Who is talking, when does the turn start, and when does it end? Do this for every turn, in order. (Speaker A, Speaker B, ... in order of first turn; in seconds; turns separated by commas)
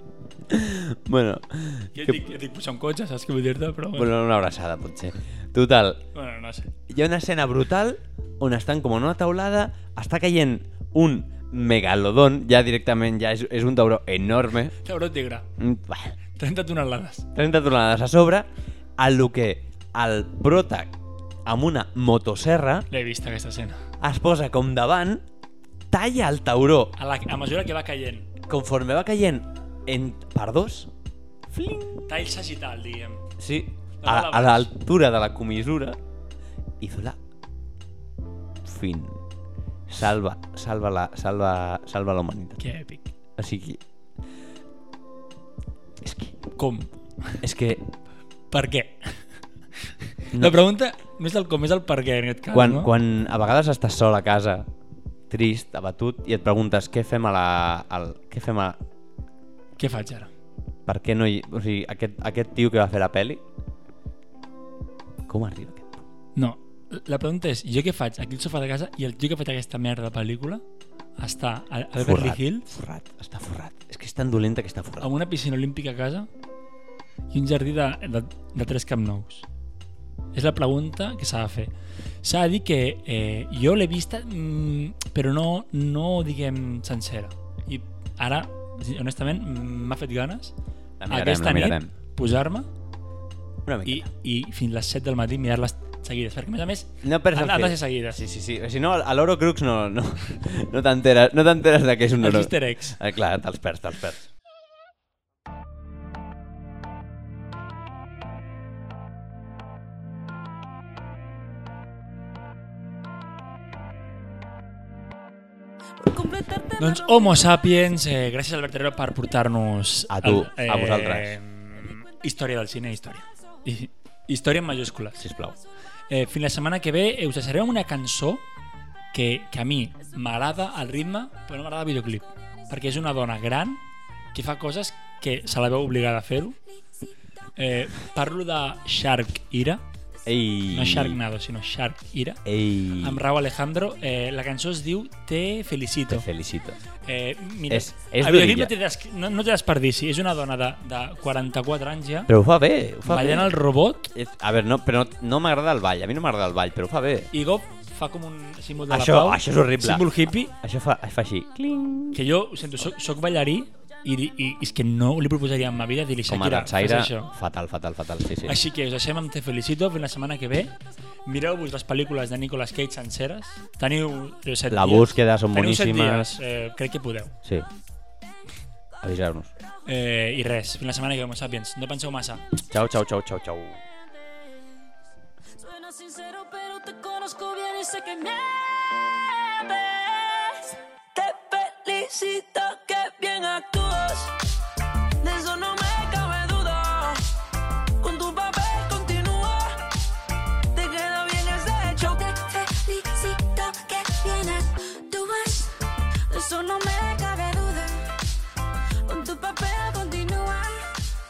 Speaker A: 0.5-2.2, Speaker B: 1.9-4.1, Speaker A: 4.0-6.0, Speaker B: 6.1-6.7, Speaker A: 6.9-14.7, Speaker B: 14.8-15.5, Speaker A: 15.6-16.1, Speaker B: 16.4-17.3, Speaker A: 17.4-18.5, Speaker A: 19.0-20.9, Speaker A: 21.5-22.9, Speaker B: 22.9-23.8, Speaker A: 24.0-25.2, Speaker A: 25.9-26.9, Speaker B: 27.0-28.3, Speaker A: 28.5-30.9, Speaker A: 31.5-32.1, Speaker B: 32.1-33.2, Speaker A: 33.4-36.0, Speaker B: 34.0-34.7, Speaker A: 36.8-37.2, Speaker A: 38.6-39.2, Speaker A: 39.9-42.6, Speaker B: 42.6-43.1, Speaker A: 43.4-43.8, Speaker A: 46.0-46.3, Speaker B: 46.5-47.4, Speaker A: 47.4-47.9, Speaker B: 48.5-49.2, Speaker B: 50.3-52.9, Speaker A: 52.5-54.7, Speaker A: 55.3-58.8, Speaker B: 59.8-60.3, Speaker A: 60.9-63.4, Speaker A: 65.3-66.0, Speaker B: 66.4-70.6, Speaker B: 71.2-72.7, Speaker A: 72.0-75.1, Speaker B: 75.0-76.3, Speaker B: 77.3-79.5, Speaker B: 80.3-81.7, Speaker B: 82.2-90.5, Speaker A: 91.0-91.9, Speaker B: 91.1-92.7, Speaker A: 93.7-94.1, Speaker B: 93.9-98.2, Speaker A: 97.0-104.3, Speaker B: 102.2-103.0, Speaker C: 116.0-117.5, Speaker B: 116.8-125.2, Speaker A: 120.1-121.4, Speaker A: 125.2-125.6, Speaker B: 126.1-128.4, Speaker B: 129.1-133.8, Speaker B: 134.3-136.6, Speaker B: 137.6-139.8, Speaker A: 140.3-141.2, Speaker B: 140.7-142.4, Speaker A: 142.5-143.2, Speaker B: 143.0-146.3, Speaker A: 146.1-146.8, Speaker B: 147.0-152.3, Speaker A: 147.7-148.7, Speaker A: 152.3-153.5, Speaker B: 153.1-154.1, Speaker A: 154.1-157.3, Speaker B: 157.3-160.5, Speaker A: 158.9-162.2, Speaker B: 162.1-167.3, Speaker A: 166.3-168.6, Speaker B: 168.4-170.8, Speaker B: 171.3-177.3, Speaker A: 174.7-176.4, Speaker A: 179.0-179.5, Speaker B: 179.9-182.4, Speaker A: 182.7-183.8, Speaker C: 185.6-194.3, Speaker C: 195.2-197.3, Speaker C: 198.0-199.9, Speaker C: 200.7-205.8, Speaker C: 206.3-208.1, Speaker C: 209.0-210.9